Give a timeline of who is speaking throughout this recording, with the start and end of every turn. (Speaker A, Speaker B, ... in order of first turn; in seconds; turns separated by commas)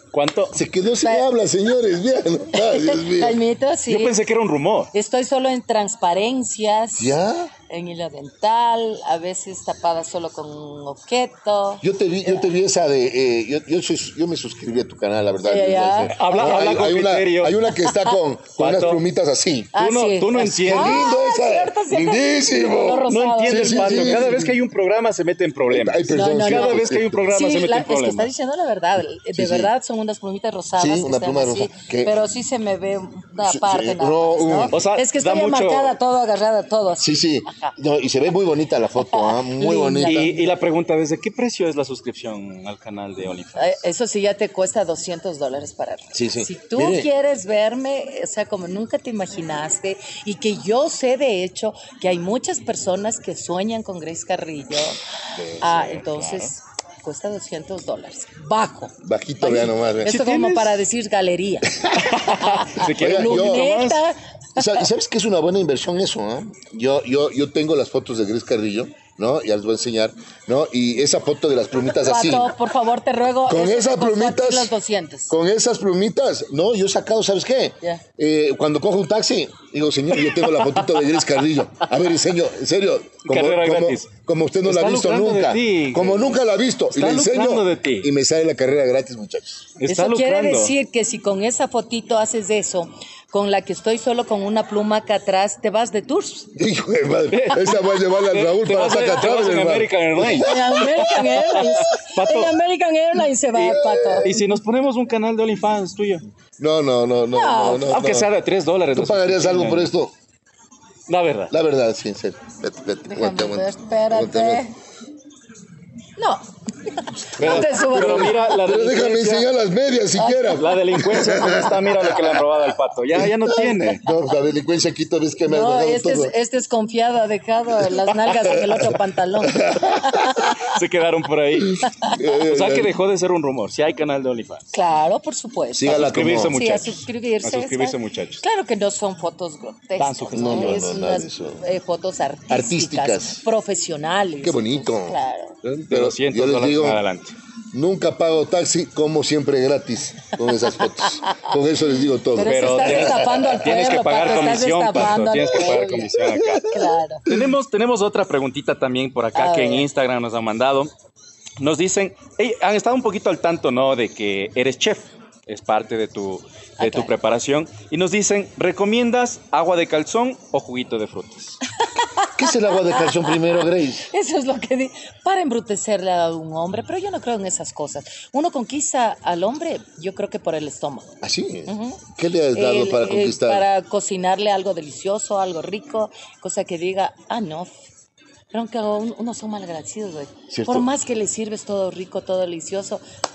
Speaker A: 0.1-0.6, Speaker B: 0.5-3.4, Speaker C: 1.0-1.3, Speaker C: 2.5-4.2, Speaker A: 3.9-4.9, Speaker C: 4.9-7.2, Speaker B: 7.0-7.5, Speaker C: 7.7-12.4, Speaker B: 11.8-19.8, Speaker C: 15.4-16.1, Speaker A: 16.1-17.6, Speaker A: 18.6-19.0, Speaker C: 19.7-24.4, Speaker A: 19.8-21.1, Speaker B: 20.5-24.6, Speaker A: 23.1-28.3, Speaker B: 25.7-27.2, Speaker C: 26.1-37.7, Speaker B: 29.3-29.7, Speaker B: 30.8-32.1, Speaker B: 33.4-34.8, Speaker A: 34.7-36.0, Speaker B: 37.0-40.3, Speaker C: 39.0-40.5, Speaker A: 40.0-43.8, Speaker C: 43.6-64.8, Speaker B: 46.1-47.1, Speaker A: 55.4-56.5, Speaker B: 59.0-60.2, Speaker A: 60.0-60.8, Speaker B: 61.8-62.0, Speaker A: 62.0-64.0, Speaker B: 62.8-63.7, Speaker B: 64.6-72.5, Speaker C: 71.9-75.3, Speaker B: 73.5-74.7, Speaker B: 75.3-89.7, Speaker A: 80.2-80.8, Speaker A: 83.2-84.1, Speaker A: 84.6-86.4, Speaker A: 86.9-88.1, Speaker A: 89.8-90.7, Speaker C: 89.9-96.5, Speaker B: 96.6-100.8, Speaker A: 97.3-102.5, Speaker C: 100.2-104.3, Speaker B: 103.5-104.4, Speaker A: 104.2-106.2, Speaker B: 106.6-108.3, Speaker C: 107.3-108.0, Speaker A: 107.7-109.9, Speaker B: 108.9-110.1, Speaker A: 111.1-111.5, Speaker B: 111.5-114.7, Speaker C: 113.1-114.7, Speaker C: 116.2-118.4, Speaker B: 117.3-122.4, Speaker A: 117.4-119.5, Speaker A: 120.4-124.0, Speaker B: 123.1-126.3, Speaker C: 125.4-130.7, Speaker B: 129.4-130.5, Speaker A: 130.5-131.9, Speaker B: 131.7-132.9, Speaker A: 132.4-134.7, Speaker C: 134.7-145.6, Speaker B: 135.7-136.6, Speaker A: 135.9-138.4, Speaker A: 140.0-140.9, Speaker B: 140.3-141.6, Speaker B: 142.5-143.4, Speaker B: 144.4-147.0, Speaker A: 145.8-147.3, Speaker B: 147.7-153.7, Speaker C: 151.1-151.5, Speaker C: 152.3-156.1, Speaker A: 152.4-156.7, Speaker B: 155.6-157.5, Speaker C: 156.6-157.3, Speaker A: 157.2-160.9, Speaker C: 159.3-159.9, Speaker A: 161.6-171.6, Speaker C: 166.8-167.1, Speaker C: 171.9-182.0, Speaker B: 172.3-174.1, Speaker B: 181.2-183.7, Speaker C: 182.5-187.8, Speaker C: 188.5-193.0, Speaker B: 190.5-190.9